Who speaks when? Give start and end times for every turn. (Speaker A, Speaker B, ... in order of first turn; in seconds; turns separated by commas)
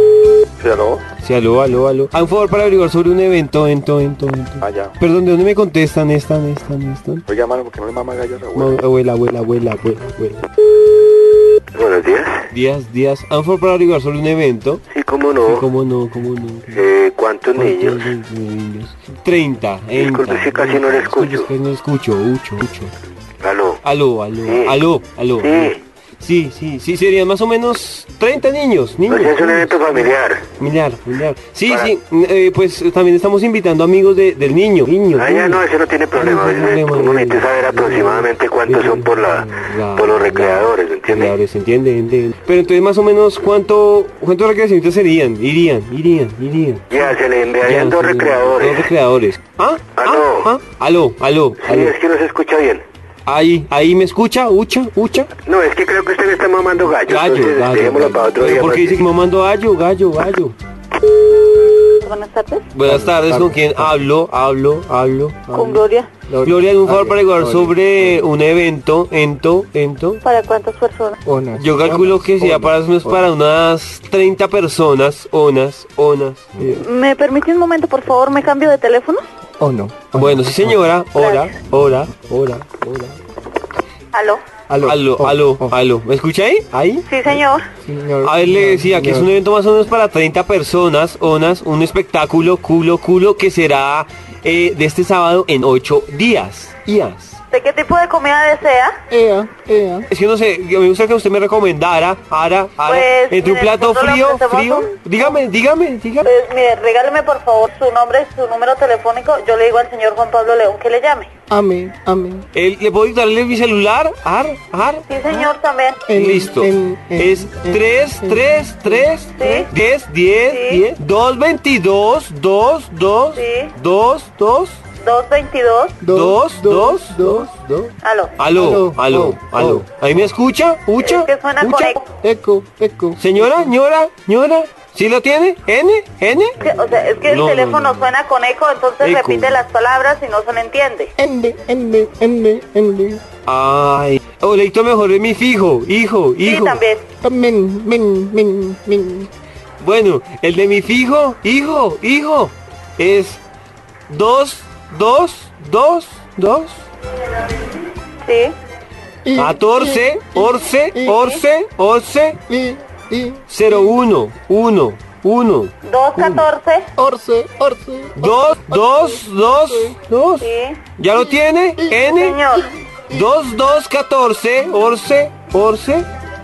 Speaker A: 0.6-1.1, Speaker B: 1.2-7.2, Speaker A: 4.6-4.9, Speaker A: 7.3-8.8, Speaker B: 8.5-10.4, Speaker C: 11.7-12.4, Speaker B: 12.5-14.8, Speaker C: 14.9-15.7, Speaker B: 15.5-16.9, Speaker C: 16.8-18.0, Speaker B: 17.5-22.9, Speaker C: 20.0-21.5, Speaker C: 23.4-23.8, Speaker B: 23.8-52.0, Speaker C: 24.4-24.8, Speaker C: 25.4-25.8, Speaker C: 29.1-30.5, Speaker C: 31.7-31.9, Speaker C: 35.2-41.4, Speaker C: 46.9-48.9, Speaker C: 50.0-50.5, Speaker C: 51.6-52.8, Speaker B: 53.3-55.3, Speaker C: 55.5-59.1, Speaker B: 57.0-60.6, Speaker D: 62.0-62.7, Speaker B: 62.7-65.5, Speaker E: 62.9-63.9, Speaker E: 65.5-68.2, Speaker D: 65.5-66.1, Speaker B: 66.4-70.2, Speaker D: 70.2-71.2, Speaker E: 71.2-73.2, Speaker B: 71.6-76.7, Speaker D: 76.8-79.2, Speaker E: 79.6-80.8, Speaker B: 80.1-83.2, Speaker D: 81.2-81.5, Speaker D: 84.1-84.4, Speaker E: 84.7-85.8, Speaker B: 84.8-87.0, Speaker D: 87.1-87.7, Speaker E: 87.9-89.3, Speaker B: 88.2-97.4, Speaker D: 97.5-99.0, Speaker E: 99.1-100.1, Speaker B: 100.1-106.3, Speaker D: 102.8-105.3, Speaker D: 106.2-111.3, Speaker E: 111.5-112.5, Speaker B: 112.5-115.5, Speaker D: 115.1-116.0, Speaker E: 116.1-119.0, Speaker B: 116.1-124.8, Speaker D: 119.4-119.7, Speaker D: 120.5-120.8, Speaker D: 123.3-123.7, Speaker D: 125.0-126.0, Speaker E: 126.0-127.9, Speaker B: 126.1-127.5, Speaker D: 128.0-128.3, Speaker B: 128.4-132.0, Speaker E: 128.6-129.9, Speaker D: 131.0-132.0, Speaker E: 132.2-133.7, Speaker B: 133.2-136.6, Speaker D: 136.6-141.1, Speaker B: 137.2-138.1, Speaker B: 139.0-139.6, Speaker E: 141.2-143.2, Speaker B: 143.5-146.8, Speaker D: 146.4-147.1, Speaker E: 147.2-149.3, Speaker B: 149.8-153.4, Speaker B: 154.1-156.8, Speaker D: 158.2-158.5, Speaker E: 159.2-161.2, Speaker B: 159.4-162.4, Speaker D: 161.1-161.4, Speaker E: 162.5-164.0, Speaker B: 163.5-166.5, Speaker D: 165.8-166.9, Speaker E: 167.0-170.0, Speaker B: 168.2-172.4, Speaker D: 170.4-170.8, Speaker E: 171.1-173.2, Speaker D: 172.1-172.8, Speaker B: 173.1-176.1